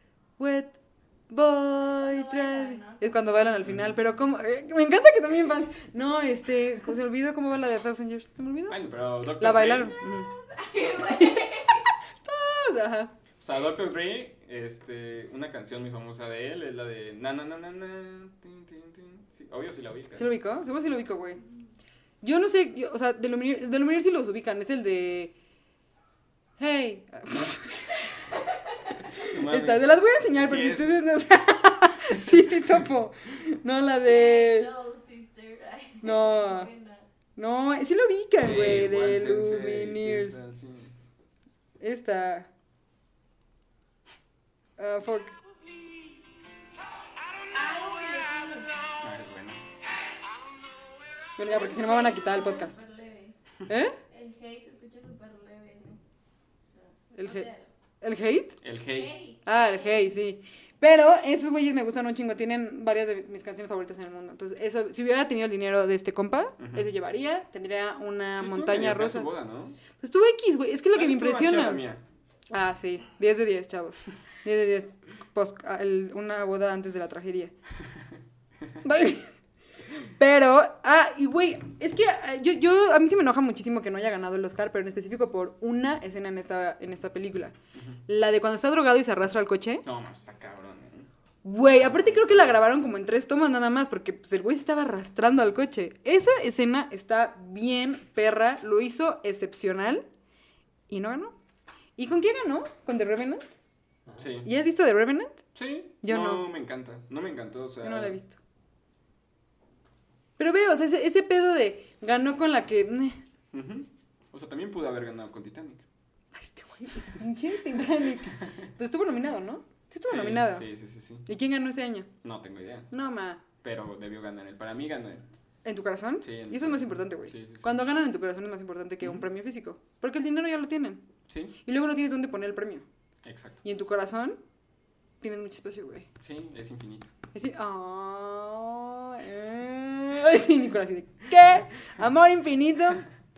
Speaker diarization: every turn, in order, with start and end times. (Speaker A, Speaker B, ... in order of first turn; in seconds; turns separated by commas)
Speaker A: 0.4-0.8, Speaker A: 1.3-11.6, Speaker B: 2.0-3.6, Speaker C: 3.6-3.9, Speaker C: 8.7-9.9, Speaker B: 10.0-11.9, Speaker A: 12.2-13.1, Speaker C: 13.4-20.3, Speaker A: 20.1-21.4, Speaker A: 22.2-25.3, Speaker A: 26.6-28.0, Speaker C: 29.2-31.0, Speaker A: 29.3-34.7, Speaker B: 34.0-37.0, Speaker A: 36.0-36.7, Speaker A: 37.4-40.4, Speaker C: 38.4-40.9, Speaker A: 41.8-42.5, Speaker A: 44.8-45.3, Speaker B: 47.5-49.0, Speaker C: 49.0-49.6, Speaker A: 51.4-52.8, Speaker B: 51.4-53.4, Speaker A: 53.7-54.0, Speaker B: 54.1-56.0, Speaker B: 56.7-57.7, Speaker A: 57.1-57.5, Speaker A: 58.0-58.6, Speaker C: 58.6-59.1, Speaker B: 58.8-60.2, Speaker A: 59.4-69.3, Speaker C: 66.6-66.9, Speaker C: 68.3-69.8, Speaker A: 70.0-71.8, Speaker C: 70.9-72.0, Speaker A: 72.5-77.5, Speaker A: 78.8-79.3, Speaker A: 80.0-87.5, Speaker C: 87.7-88.0, Speaker A: 88.1-89.8, Speaker C: 89.8-91.1, Speaker A: 91.4-100.0, Speaker C: 91.8-92.6, Speaker A: 100.9-101.3, Speaker A: 102.0-103.4, Speaker C: 104.2-104.5, Speaker A: 104.4-105.4, Speaker C: 105.5-108.2, Speaker A: 106.0-106.5, Speaker A: 107.8-108.4, Speaker A: 110.4-113.2, Speaker C: 113.5-115.8, Speaker A: 116.3-120.7, Speaker C: 120.1-121.3, Speaker A: 121.2-122.1, Speaker C: 122.2-122.9, Speaker A: 122.9-123.4, Speaker C: 123.6-125.2, Speaker A: 125.6-131.0, Speaker C: 126.2-127.8, Speaker C: 131.3-131.6, Speaker A: 131.6-132.8, Speaker C: 133.2-133.6, Speaker A: 133.6-134.4, Speaker A: 135.2-136.1, Speaker C: 136.2-137.1, Speaker A: 137.3-143.0